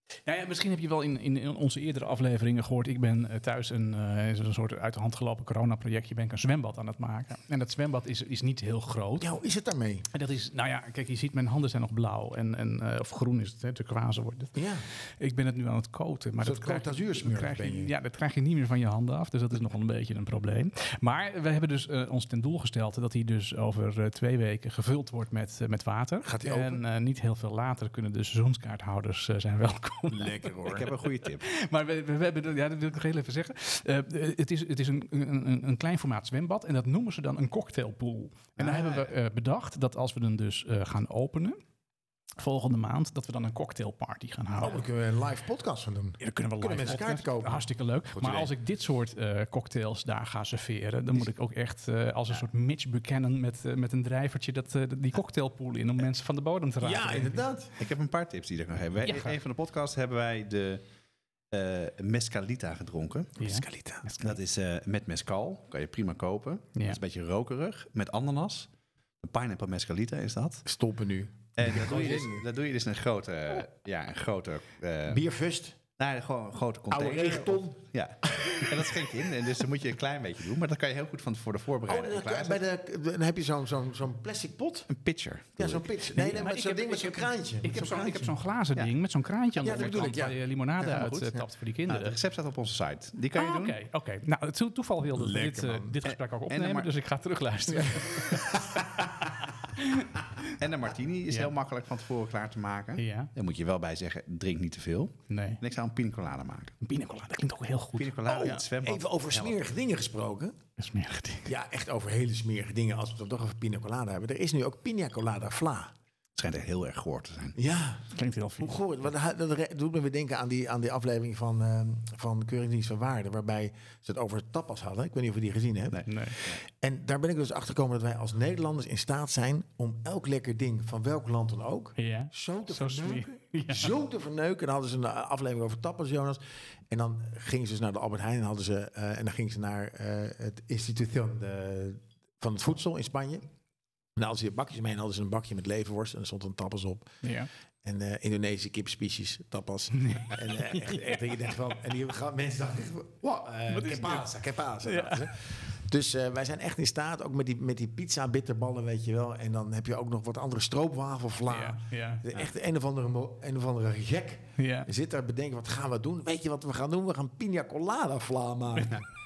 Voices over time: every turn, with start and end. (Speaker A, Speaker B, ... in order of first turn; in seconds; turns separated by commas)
Speaker A: 0.2-9.3, Speaker B: 9.2-10.1, Speaker A: 10.1-30.8, Speaker B: 14.6-14.8, Speaker B: 16.4-17.9, Speaker B: 26.2-26.8, Speaker B: 30.1-30.9, Speaker C: 30.7-31.5, Speaker A: 31.4-41.6, Speaker C: 38.6-39.1, Speaker A: 42.4-44.8, Speaker B: 44.6-47.7, Speaker A: 46.2-57.5, Speaker C: 48.1-48.5, Speaker B: 56.8-57.8, Speaker C: 57.8-60.8, Speaker A: 59.0-59.3, Speaker C: 61.5-63.3, Speaker B: 63.4-64.1, Speaker A: 63.4-64.4, Speaker C: 64.2-70.7, Speaker B: 70.7-72.5, Speaker C: 71.6-75.2, Speaker B: 75.1-75.8, Speaker C: 76.0-82.6, Speaker B: 76.9-77.8, Speaker B: 78.3-78.7, Speaker B: 81.9-84.9, Speaker C: 84.9-85.9, Speaker B: 85.6-88.3, Speaker A: 86.1-92.2, Speaker B: 89.6-90.4, Speaker C: 89.6-93.8, Speaker A: 93.3-100.5, Speaker B: 95.1-96.0, Speaker C: 96.0-96.9, Speaker B: 97.7-98.9, Speaker C: 100.6-106.8, Speaker A: 103.0-103.3, Speaker A: 105.3-105.6, Speaker A: 106.8-108.6, Speaker C: 108.0-109.6, Speaker B: 108.3-110.6, Speaker A: 110.8-111.5, Speaker B: 111.5-115.9, Speaker C: 116.4-117.6, Speaker B: 117.5-143.4, Speaker A: 118.1-118.8, Speaker C: 125.9-126.6, Speaker A: 126.1-126.4, Speaker A: 132.0-133.9, Speaker B: 144.2-147.1, Speaker A: 147.2-147.5, Speaker B: 147.8-169.0, Speaker A: 150.0-151.2, Speaker A: 153.7-154.3, Speaker A: 154.8-155.3, Speaker A: 161.5-162.3, Speaker A: 164.6-164.9